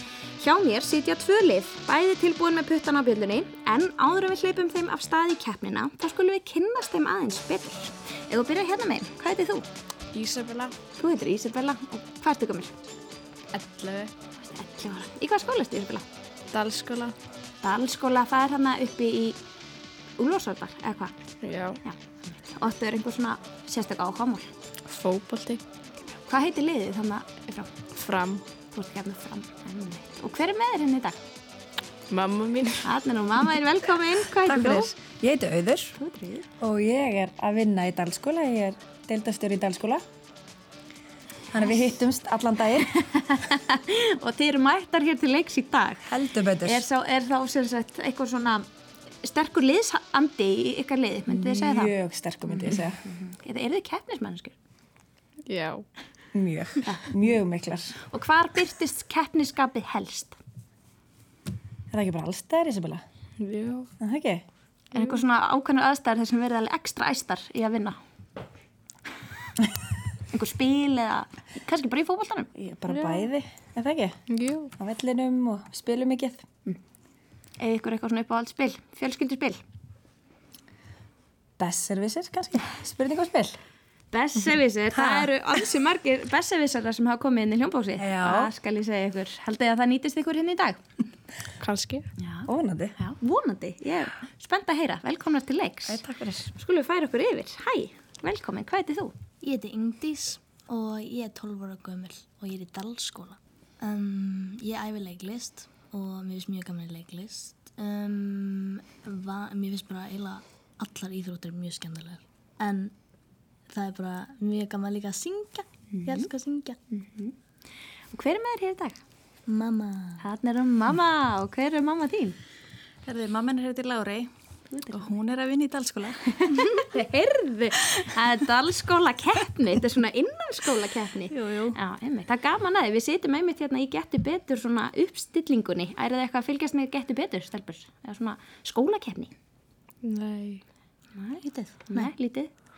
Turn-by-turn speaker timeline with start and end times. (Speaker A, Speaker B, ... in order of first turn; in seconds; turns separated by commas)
Speaker A: 0.4-9.7, Speaker B: 10.2-10.7, Speaker C: 10.2-10.5, Speaker A: 11.0-12.7, Speaker B: 13.6-14.1, Speaker A: 14.4-16.1, Speaker B: 16.5-17.1, Speaker A: 17.6-19.4, Speaker A: 20.2-21.1, Speaker A: 21.8-24.5, Speaker B: 24.9-25.6, Speaker C: 25.0-25.5, Speaker A: 26.3-27.7, Speaker B: 28.0-28.4, Speaker A: 28.7-31.2, Speaker B: 32.1-32.8, Speaker A: 32.8-34.9, Speaker D: 34.5-36.0, Speaker A: 36.0-36.5, Speaker D: 36.6-40.0, Speaker D: 41.5-42.9, Speaker A: 42.9-46.0, Speaker D: 46.1-46.8, Speaker A: 46.6-48.7, Speaker A: 49.2-52.0, Speaker D: 51.3-53.0, Speaker A: 52.5-54.6, Speaker B: 55.5-55.8, Speaker D: 56.3-58.0, Speaker A: 56.9-57.1, Speaker A: 58.1-60.4, Speaker D: 61.9-63.0, Speaker B: 63.4-63.9, Speaker D: 64.0-64.4, Speaker A: 64.9-68.0, Speaker A: 70.3-72.5, Speaker D: 72.5-76.5, Speaker B: 72.9-73.3, Speaker B: 74.3-74.7, Speaker A: 77.6-79.6, Speaker D: 81.6-83.6, Speaker A: 84.1-90.8, Speaker D: 84.9-85.3, Speaker D: 88.0-88.5, Speaker B: 91.6-92.0, Speaker A: 92.2-96.0, Speaker D: 92.5-93.0, Speaker D: 95.9-96.5, Speaker A: 96.5-99.2, Speaker C: 99.4-112.9, Speaker C: 113.7-116.8, Speaker A: 115.9-116.3, Speaker A: 116.9-117.3, Speaker A: 118.1-119.0, Speaker C: 119.5-120.2, Speaker A: 120.2-122.4, Speaker E: 123.0-124.3, Speaker A: 124.7-125.0, Speaker E: 124.9-126.9, Speaker A: 126.5-139.3, Speaker E: 131.3-131.8, Speaker B: 140.1-140.6, Speaker A: 141.1-142.5, Speaker C: 141.4-142.1